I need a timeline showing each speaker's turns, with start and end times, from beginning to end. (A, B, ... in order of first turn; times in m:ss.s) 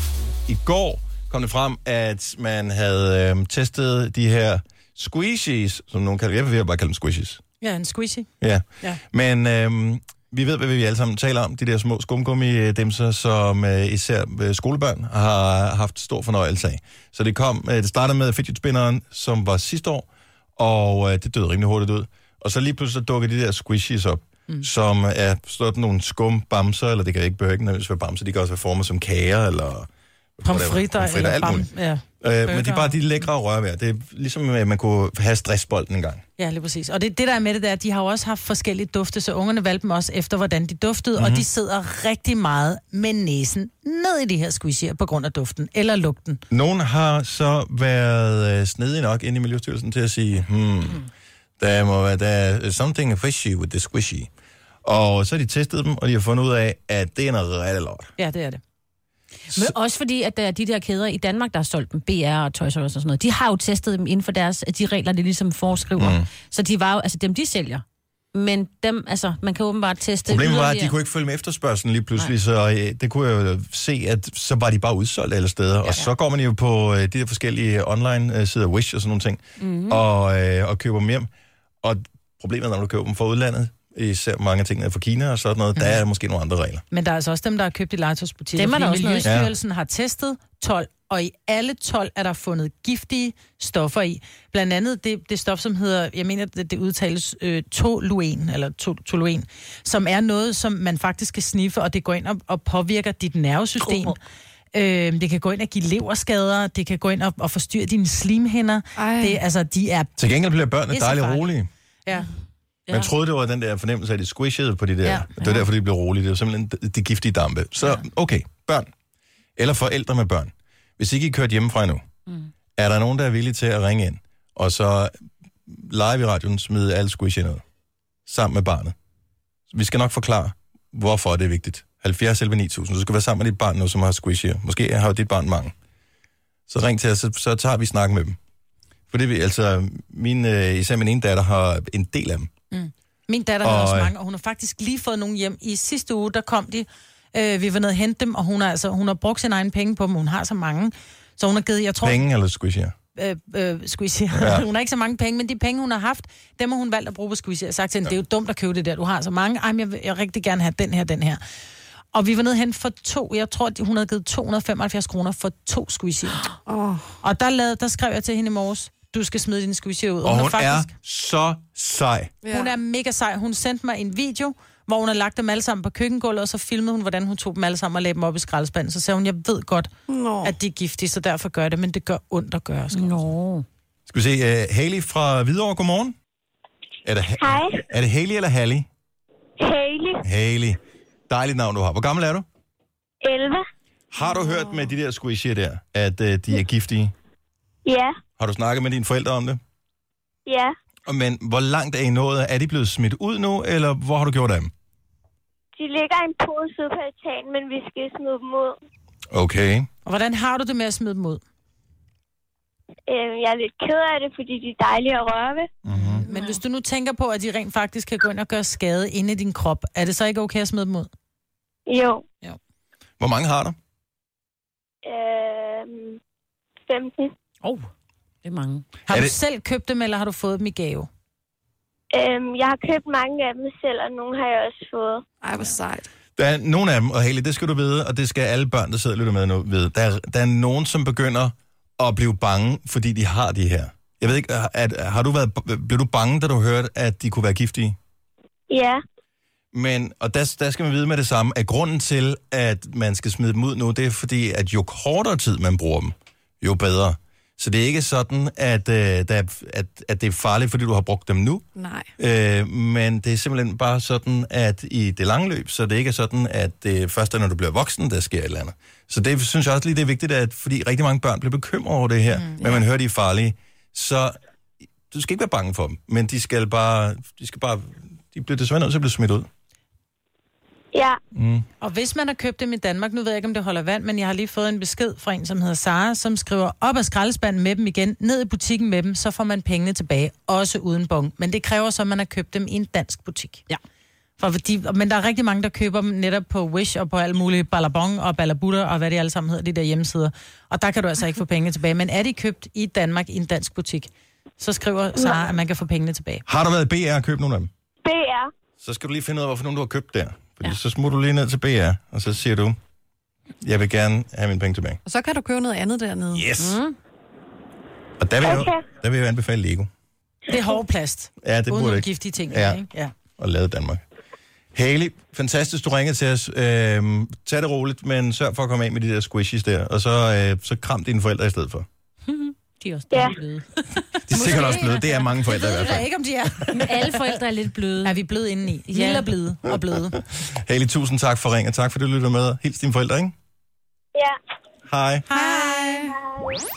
0:00.5-0:07.4 A
0:07.6-0:08.3 B
0:08.4-0:31.7 A
0:30.4-0:32.9 B
0:32.2-0:36.2 A
0:36.4-0:46.4 B
0:41.2-0:41.4 A
0:46.5-0:51.0 A
0:51.6-0:54.3 A
0:54.8-0:58.1 A
0:58.2-0:58.6 B
0:59.5-1:11.0 C
1:06.0-1:06.2 A
1:10.2-1:21.3 A
1:19.6-1:20.0 C
1:21.8-1:26.8 A
1:26.9-1:44.2 B
1:28.6-1:29.3 C
1:29.2-1:29.5 A
1:44.7-1:50.2 B
1:49.0-1:49.4 D
1:50.2-1:51.7 A
1:50.9-1:51.6 B
1:52.1-1:52.3 B
1:52.9-1:58.9 A
1:55.4-1:55.6 C
1:59.6-2:02.0 A
2:02.8-2:05.1 A
2:05.7-2:07.6 A
2:08.2-2:08.9 A
2:09.7-2:15.7 A
2:16.7-2:18.4 A
2:19.1-2:22.5 A
2:22.7-2:32.2 B
2:23.6-2:24.1 A
2:32.0-2:32.9 A
2:33.2-2:41.4 B
2:34.3-2:34.7 A
2:42.1-2:46.5 B
2:46.7-2:47.1 D
2:47.2-2:50.9 B
2:50.2-2:52.3 A
2:52.4-2:52.7 D
2:52.5-2:59.9 B
3:00.1-3:00.6 D
3:00.4-3:03.2 B
3:02.9-3:03.7 C
3:04.1-3:06.2 A
3:07.0-3:08.9 A
3:07.4-3:07.8 E
3:09.6-3:10.2 E
3:10.2-3:12.4 A
3:13.2-3:13.6 E
3:14.1-3:17.1 A
3:17.8-3:18.2 E
3:18.4-3:19.6 A
3:20.5-3:20.7 E
3:21.1-3:24.7 A
3:25.8-3:28.7 E
3:29.3-3:29.9 A
3:30.0-3:31.4 B
3:33.1-3:35.7 E
3:35.8-3:36.2 A
3:35.9-3:41.1 B
3:41.9-3:42.2 E
3:43.2-3:43.8 A
3:45.0-3:46.2 E
3:46.9-3:47.3 E
3:48.4-3:48.9 C
3:49.1-3:51.1 B
3:49.1-3:49.3 A
3:52.1-3:55.2 E
3:55.4-3:56.1 D
3:56.4-4:08.0 A
4:08.7-4:09.0 E
4:09.7-4:21.6 A
4:21.8-4:22.1 D
4:22.2-4:34.3 A
4:32.3-4:32.8 B
4:35.1-4:39.5 A
4:40.9-4:41.2 E
4:41.3-4:41.6 A
4:41.8-4:53.7 B
4:54.4-5:06.4 B
5:06.5-5:07.7 A
5:08.0-5:08.5 E
5:08.8-5:12.8 A
5:13.6-5:15.0 A
5:15.0-5:16.8 D
5:16.6-5:17.0 C
5:18.2-5:19.9 A
5:18.4-5:18.8 E
5:20.5-5:23.1 B
5:21.4-5:22.8 A
5:23.4-5:24.0 A
5:24.7-5:31.8 A
5:32.3-5:33.8 C
5:33.1-5:33.4 E
5:34.3-5:36.0 A
5:34.3-5:37.4 B
5:36.7-5:38.2 C
5:38.0-5:40.2 B
5:38.9-5:39.2 C
5:40.1-5:43.3 A
5:44.9-5:45.2 A
5:45.3-5:46.1 B
5:45.3-5:46.1 D
5:46.2-5:46.5 E